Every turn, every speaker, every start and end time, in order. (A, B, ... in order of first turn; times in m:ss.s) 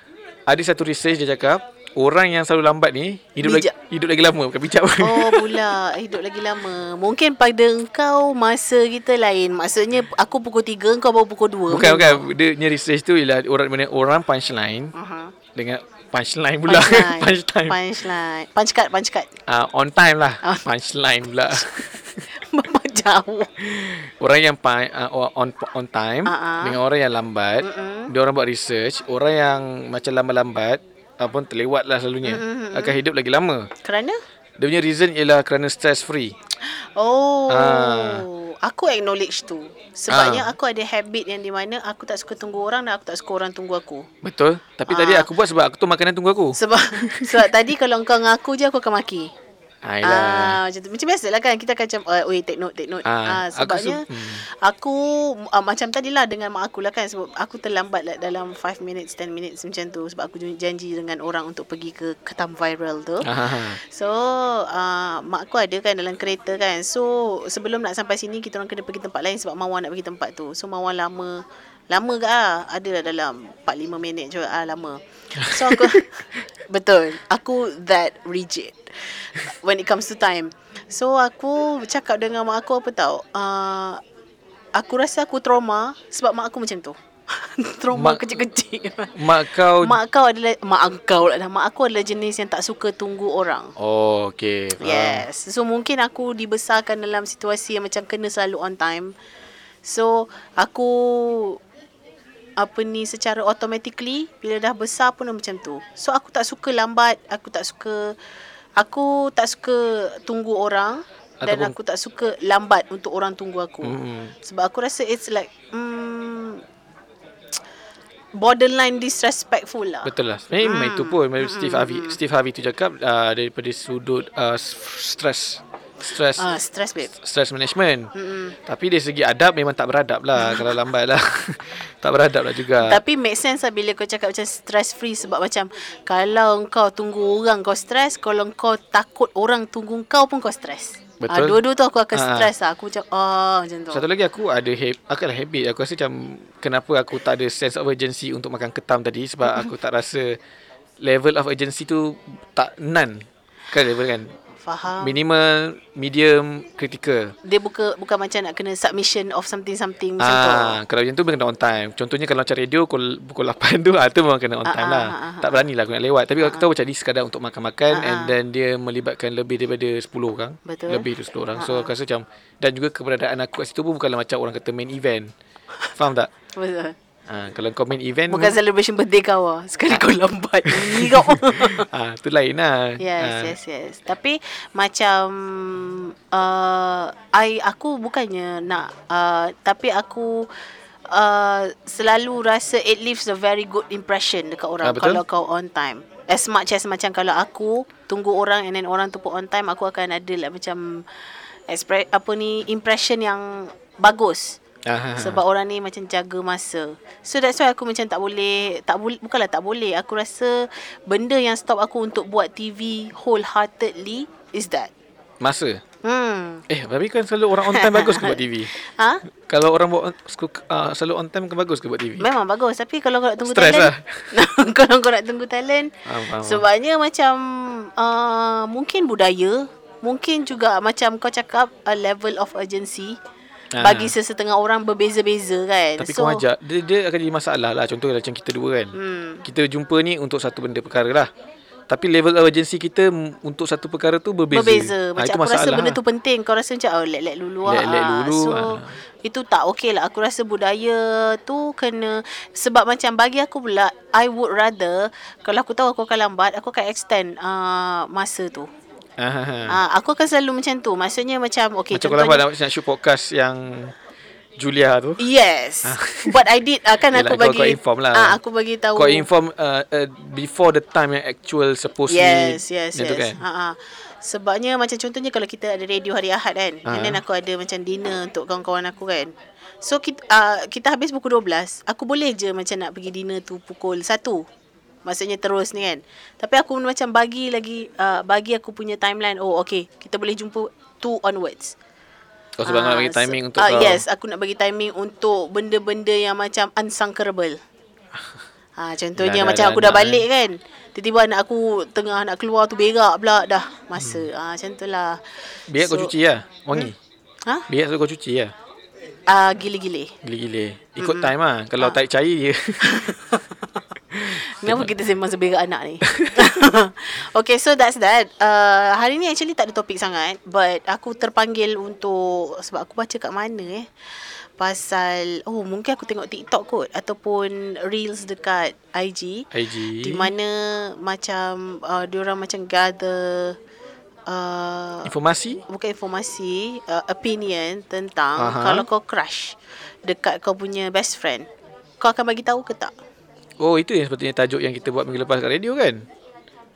0:00.5-0:05.6 A
0:03.4-0:03.7 B
0:05.0-0:12.3 B
0:11.7-0:14.9 A
0:15.0-0:15.3 B
0:15.6-0:17.8 A
0:16.7-0:19.3 B
0:19.5-0:22.2 A
0:22.3-0:23.5 B
0:23.6-0:33.7 A
0:26.2-0:26.8 B
0:27.6-0:28.1 B
0:32.2-0:33.0 B
0:33.8-0:34.2 B
0:34.6-0:36.4 A
0:36.7-0:44.1 B
0:37.5-0:38.2 A
0:40.1-0:40.5 A
0:44.2-0:47.5 A
0:44.9-0:45.3 B
0:46.6-0:49.3 B
0:49.8-0:50.6 A
0:50.0-1:16.1 B
0:53.0-0:54.4 A
1:03.2-1:03.8 A
1:15.5-1:16.0 A
1:16.7-1:24.0 B
1:24.8-1:29.2 B
1:27.9-1:28.3 A
1:29.2-1:30.0 A
1:29.8-1:33.7 B
1:33.8-1:35.2 A
1:34.8-1:39.1 B
1:39.8-1:41.6 B
1:42.6-1:48.1 B
1:48.8-1:56.6 B
1:51.4-1:51.7 A
1:53.8-1:54.3 A
1:58.4-2:00.1 B
2:00.0-2:06.5 A
2:00.6-2:02.2 B
2:06.4-2:07.1 B
2:07.1-2:08.1 A
2:08.2-2:08.5 B
2:08.7-2:13.0 A
2:10.4-2:10.7 B
2:12.8-2:24.0 B
2:21.2-2:21.6 A
2:22.1-2:22.5 A
2:23.9-2:30.4 A
2:29.4-2:29.7 B
2:31.0-2:34.3 A
2:34.6-2:35.1 B
2:35.0-2:37.4 A
2:37.4-2:40.8 B
2:40.2-2:55.3 A
2:44.7-2:45.6 B
2:46.4-2:46.7 B
2:47.9-2:48.3 B
2:50.7-2:51.9 B
2:55.9-2:56.3 A
2:56.6-2:56.9 B
2:57.3-2:58.6 A
2:58.3-3:01.9 B
3:00.7-3:03.6 A
3:03.0-3:10.5 B
3:11.1-3:21.0 B
3:14.8-3:15.2 A
3:21.7-3:24.6 B
3:24.9-3:25.4 A
3:25.2-3:34.9 B
3:35.4-3:35.8 A
3:36.0-3:36.6 B
3:36.7-3:38.7 A
3:37.7-3:39.2 B
3:39.5-3:42.2 A
3:42.2-3:45.9 B
3:43.5-3:44.3 A
3:46.1-3:46.7 A
3:46.4-3:53.2 B
3:53.8-3:54.1 A
3:53.8-3:56.4 B
3:56.0-4:01.3 A
3:58.9-3:59.4 B
4:01.9-4:06.0 A
4:04.5-4:18.7 B
4:07.7-4:08.9 A
4:19.2-4:19.8 A
4:19.7-4:22.4 B
4:21.9-4:23.9 A
4:24.6-4:25.2 A
4:25.2-4:29.2 B
4:25.8-4:26.4 A
4:27.1-4:28.4 A
4:28.9-4:33.4 A
4:32.1-4:44.4 B
4:36.9-4:37.2 A
4:45.1-4:51.8 B
4:52.6-4:54.0 A
4:52.7-4:57.6 B
4:58.8-5:05.2 B
4:59.2-5:00.2 A
5:04.0-5:04.2 A
5:05.7-5:06.9 A
5:05.8-5:06.1 B
5:07.7-5:08.5 A
5:09.3-5:10.1 B
5:10.2-5:13.1 A
5:11.0-5:12.0 B
5:12.8-5:13.4 B
5:14.2-5:14.9 A
5:14.2-5:23.9 B
5:16.1-5:16.4 A
5:24.6-5:29.5 B
5:29.5-5:30.3 A
5:30.0-5:33.6 B
5:34.3-5:35.1 B
5:35.1-5:35.6 A
5:35.6-5:41.5 B
5:38.4-5:38.9 A
5:42.0-5:42.9 B
5:43.6-5:46.0 A